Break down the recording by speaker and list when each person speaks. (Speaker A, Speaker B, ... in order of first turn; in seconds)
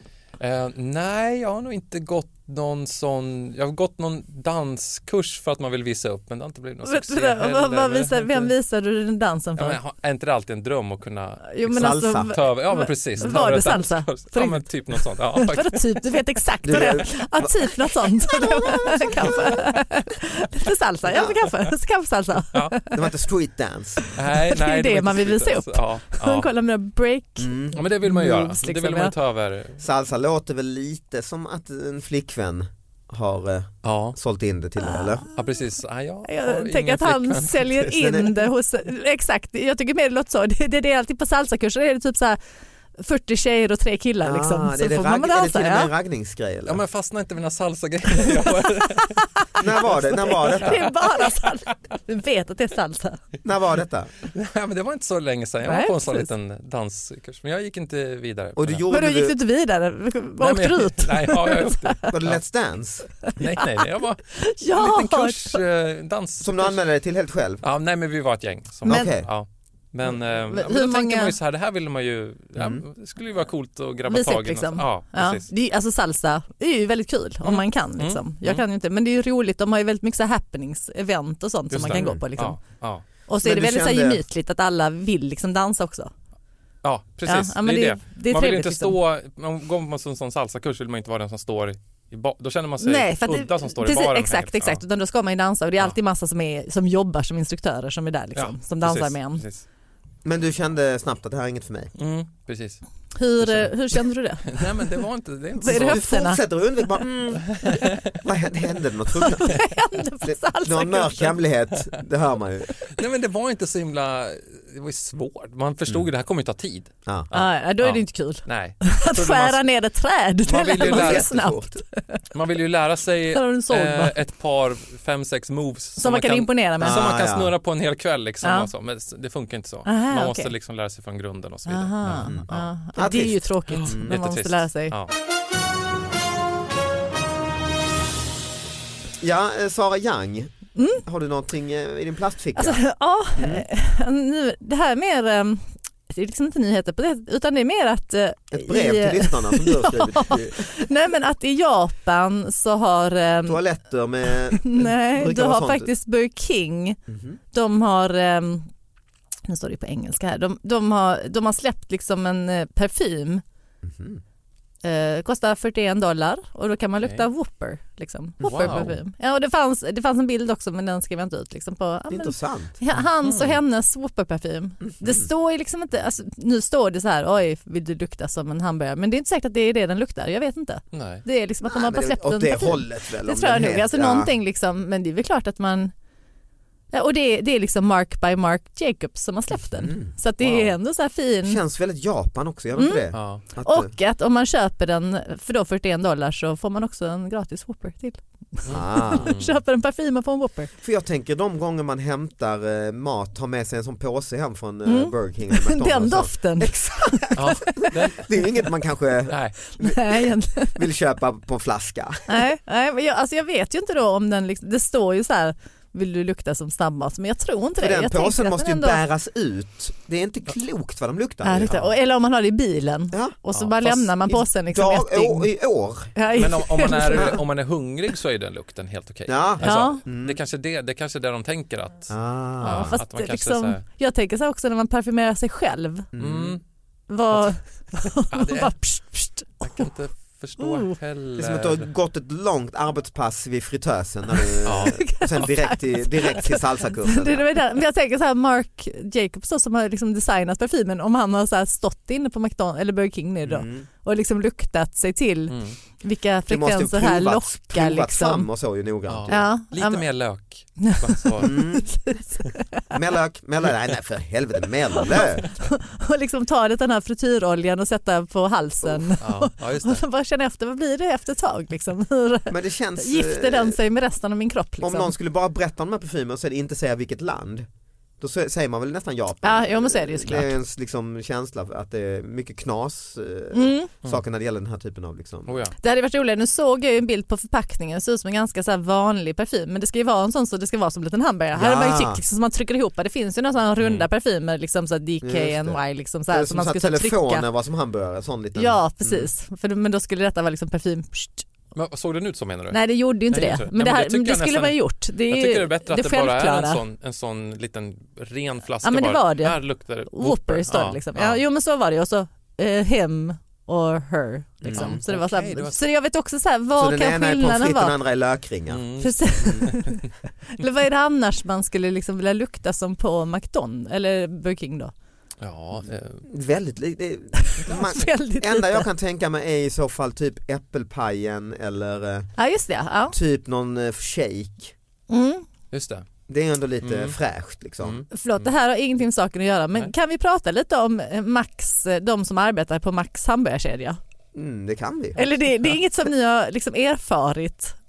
Speaker A: 0.4-8.5, 9.6-11.6, 12.2-16.0, 24.1-26.5, 27.8-29.8, 33.8-34.2, 35.3-37.9, 46.7-49.3, 50.6-51.7, 54.3-58.8, 60.4-62.4, 63.4-66.8, 67.6-75.5, 77.4-78.6, 81.7-83.0, 86.8-94.8, 98.3-99.7, 102.0-102.8, 103.4-106.0, 107.5-107.9, 112.9-119.6, 120.5-121.3, 122.3-132.6, 133.7-135.1, 168.4-168.9, 173.2-173.6, 180.9-181.2, 190.4-190.7, 193.1-193.4, 198.7-199.6, 207.4-208.2, 209.3-209.6, 226.3-233.8, 236.2-236.6, 237.3-238.8, 239.6-241.9, 244.7-245.5, 255.5-255.8, 259.1-261.5, 269.2-270.0, 285.5-285.8, 293.8-294.1, 301.8-311.4, 314.7-315.8, 318.7-319.9, 325.4-326.2, 335.7-336.1, 336.8-337.2, 337.8-338.5
Speaker B: 6.9-9.8, 11.5-22.9, 24.4-29.1, 34.9-35.3, 36.3-42.4, 43.0-45.9, 50.2-53.2, 55.7-56.3, 58.9-62.0, 64.4-65.6, 68.9-69.1, 70.3-71.3, 74.1-82.6, 83.3-86.1, 87.3-89.0, 92.8-99.4, 103.2-104.6, 105.6-106.4, 109.2-111.4, 117.3-122.2, 123.3-124.1, 126.0-127.0, 128.4-128.7, 129.9-130.5, 131.7-134.9, 140.8-141.0, 142.6-153.6, 154.6-157.0, 157.5-158.7, 159.5-163.4, 164.8-185.9, 186.9-191.6, 192.8-193.1, 193.6-200.7, 204.9-207.8, 209.8-210.8, 212.3-219.0, 221.4-225.5, 226.2-227.4, 229.6-230.0, 232.6-236.1, 237.1-239.9, 240.6-240.9, 244.9-258.5, 259.3-260.1, 260.9-262.8, 265.1-275.1, 279.4-280.5, 283.5-283.9, 285.8-297.4, 298.6-301.5, 302.7-306.8, 308.8-309.6, 310.1-318.0, 319.0-320.0, 320.6-324.9, 327.5-328.9, 332.4-333.2, 335.1-335.5, 338.1-344.0, 345.2-347.8
Speaker C: 11.6-12.4, 13.2-13.6, 16.6-19.6, 21.1-21.4, 22.9-24.1, 27.4-27.8, 29.8-35.2, 37.9-38.3, 44.2-46.8, 49.6-50.8, 53.4-54.1, 58.6-59.4, 62.1-63.1, 66.4-67.6, 68.8-69.3, 72.6-72.8, 81.9-82.2, 83.4-84.2, 100.2-101.9, 105.6-109.5, 110.2-112.8, 120.5-121.8, 126.8-127.5, 132.2-134.2, 139.2-142.8, 143.4-143.7, 148.5-150.8, 153.5-155.9, 157.1-157.4, 163.8-164.2, 168.4-168.9, 172.1-172.8, 174.8-175.3, 181.6-184.3, 189.8-190.1, 191.4-193.9, 198.7-199.3, 200.8-212.4, 217.8-221.8, 223.1-226.1, 226.8-227.4, 229.3-230.4, 232.1-233.0, 236.1-236.6, 241.4-247.5, 253.5-253.9, 256.5-259.5, 261.4-262.2, 262.9-265.5, 272.5-273.8, 274.8-277.7, 278.2-285.6, 291.6-292.2, 295.2-295.8, 296.3-299.3, 314.6-315.0, 316.8-318.9, 326.3-332.3, 333.1-334.7, 336.3-338.0, 344.3-345.2